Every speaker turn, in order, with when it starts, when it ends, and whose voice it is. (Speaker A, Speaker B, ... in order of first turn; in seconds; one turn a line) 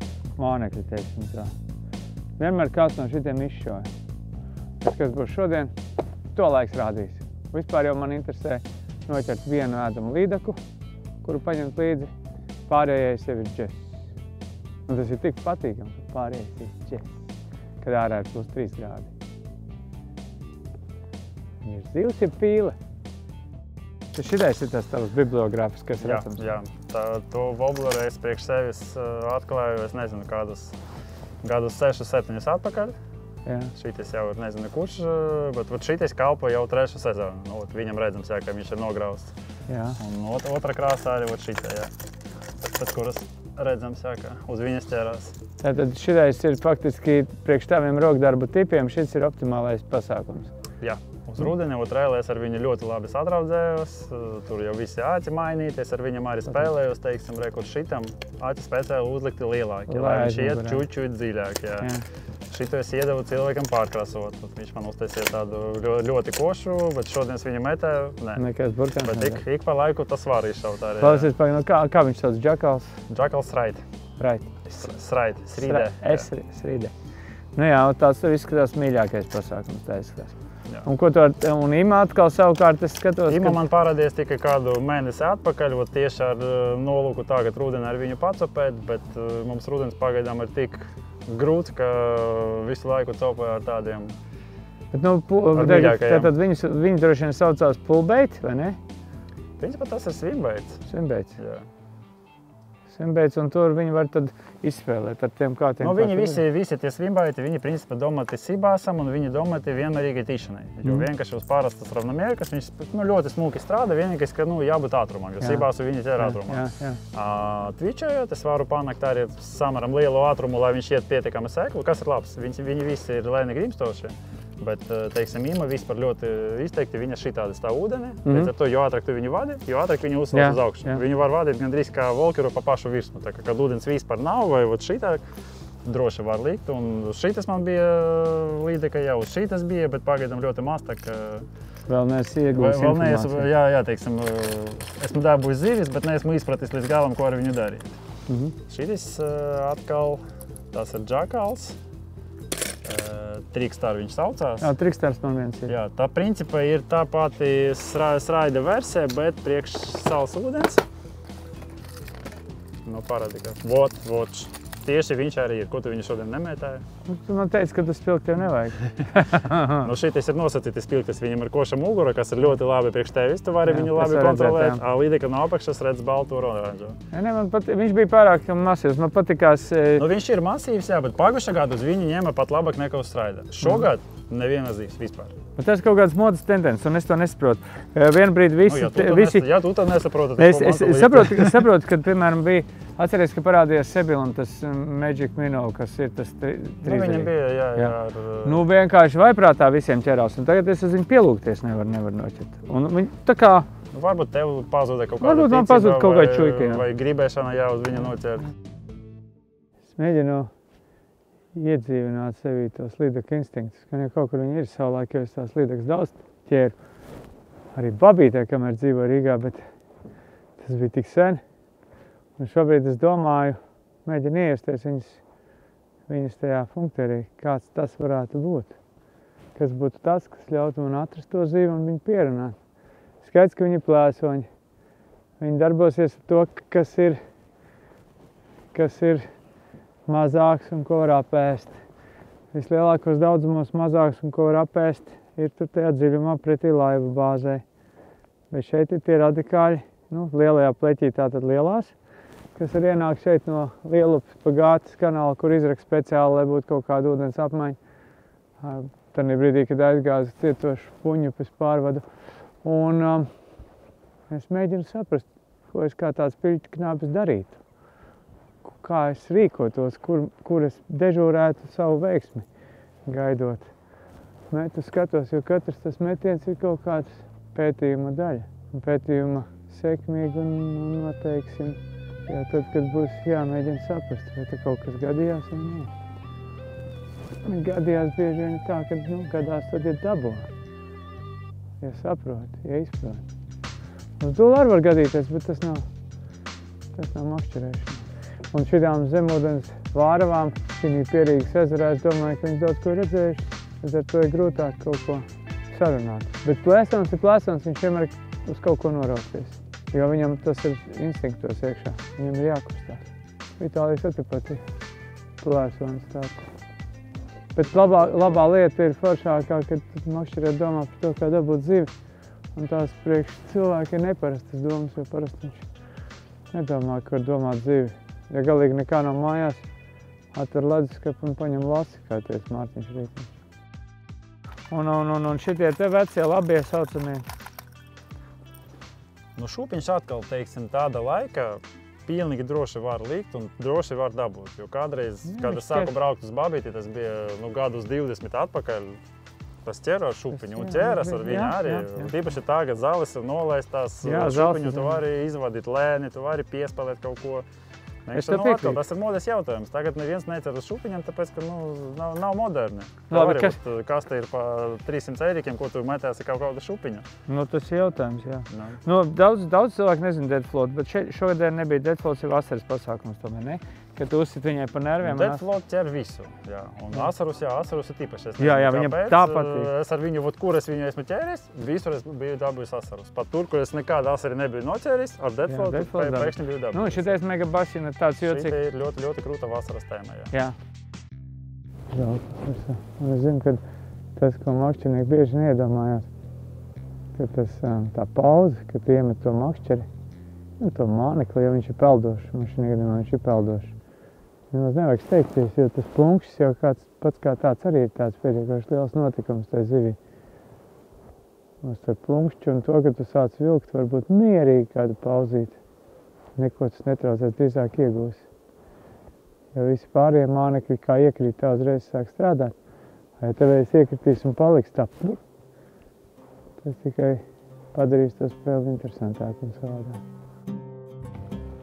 Speaker A: 0.4-1.5
Speaker A: 2.4-3.9
Speaker A: 4.8-5.7
Speaker A: 6.3-10.6
Speaker A: 11.2-12.1
Speaker A: 12.7-13.8
Speaker A: 14.9-17.1
Speaker A: 17.8-19.1
Speaker A: 21.6-22.8
Speaker A: 24.1-26.4
Speaker B: 26.0-30.8
Speaker B: 31.4-33.0
Speaker A: 33.5-33.7
Speaker B: 33.8-39.3
Speaker A: 39.7-40.0
Speaker B: 40.0-41.9
Speaker B: 42.7-45.4
Speaker A: 45.6-50.5
Speaker B: 50.8-61.9
Speaker A: 59.9-60.9
Speaker B: 62.5-68.4
Speaker A: 68.4-69.4
Speaker B: 69.0-71.3
Speaker A: 71.0-73.0
Speaker B: 73.1-73.8
Speaker A: 74.2-74.5
Speaker B: 74.7-76.3
Speaker A: 75.6-76.9
Speaker A: 77.6-83.6
Speaker B: 83.3-94.2
Speaker A: 94.9-98.8
Speaker B: 95.5-96.3
Speaker B: 99.6-100.8
Speaker A: 100.9-101.4
Speaker B: 101.4-101.7
Speaker A: 102.9-106.4
Speaker B: 105.8-135.2
Speaker A: 115.4-115.7
Speaker A: 116.2-117.0
Speaker A: 128.2-128.5
Speaker A: 130.3-131.0
Speaker B: 135.8-141.5
Speaker A: 141.9-143.5
Speaker B: 142.5-148.0
Speaker A: 148.3-148.6
Speaker B: 148.7-150.2
Speaker B: 150.7-151.8
Speaker B: 152.8-154.7
Speaker A: 154.6-155.7
Speaker B: 155.7-160.8
Speaker B: 162.8-166.9
Speaker A: 167.1-169.9
Speaker B: 169.8-177.0
Speaker A: 173.7-174.8
Speaker A: 177.1-180.1
Speaker B: 180.0-185.4
Speaker A: 185.6-189.5
Speaker B: 188.7-191.7
Speaker A: 190.4-197.9
Speaker B: 196.8-198.7
Speaker A: 198.4-203.7
Speaker B: 203.9-208.5
Speaker A: 205.2-206.9
Speaker A: 210.0-210.5
Speaker A: 211.5-216.8
Speaker A: 217.8-219.7
Speaker A: 220.6-221.4
Speaker A: 222.4-225.2
Speaker A: 226.1-228.8
Speaker A: 229.6-232.6
Speaker A: 233.2-234.5
Speaker A: 235.4-237.2
Speaker A: 238.7-239.3
Speaker A: 240.1-241.7
Speaker A: 242.5-247.6
Speaker A: 248.5-251.9
Speaker A: 252.6-257.8
Speaker A: 258.6-262.0
Speaker A: 262.6-263.3
Speaker A: 264.3-267.6
Speaker A: 268.6-272.5
Speaker A: 273.1-273.7
Speaker A: 274.5-285.9
Speaker A: 287.4-290.5
Speaker A: 291.8-293.2
Speaker A: 294.2-295.9
Speaker A: 296.9-313.1
Speaker A: 313.6-314.6
Speaker A: 315.4-316.4
Speaker A: 317.6-321.9
Speaker A: 322.6-325.7
Speaker A: 326.5-329.6
Speaker A: 330.3-333.3
Speaker A: 334.7-337.3
Speaker B: 339.4-349.0
Speaker A: 345.3-345.9
Speaker B: 349.6-357.5
Speaker A: 350.4-352.1
Speaker A: 354.0-355.0
Speaker B: 358.1-367.1
Speaker A: 358.1-358.8
Speaker A: 363.1-363.6
Speaker A: 367.3-375.4
Speaker B: 368.5-368.8
Speaker B: 375.0-387.1
Speaker A: 378.4-379.7
Speaker A: 385.5-388.6
Speaker B: 388.2-390.3
Speaker A: 391.9-393.6
Speaker A: 394.2-396.1
Speaker A: 397.1-399.9
Speaker A: 400.6-403.8
Speaker A: 404.5-410.0
Speaker A: 411.6-415.6
Speaker A: 416.4-418.2
Speaker A: 419.6-422.6
Speaker A: 423.2-425.2
Speaker A: 426.6-427.2
Speaker A: 427.7-430.0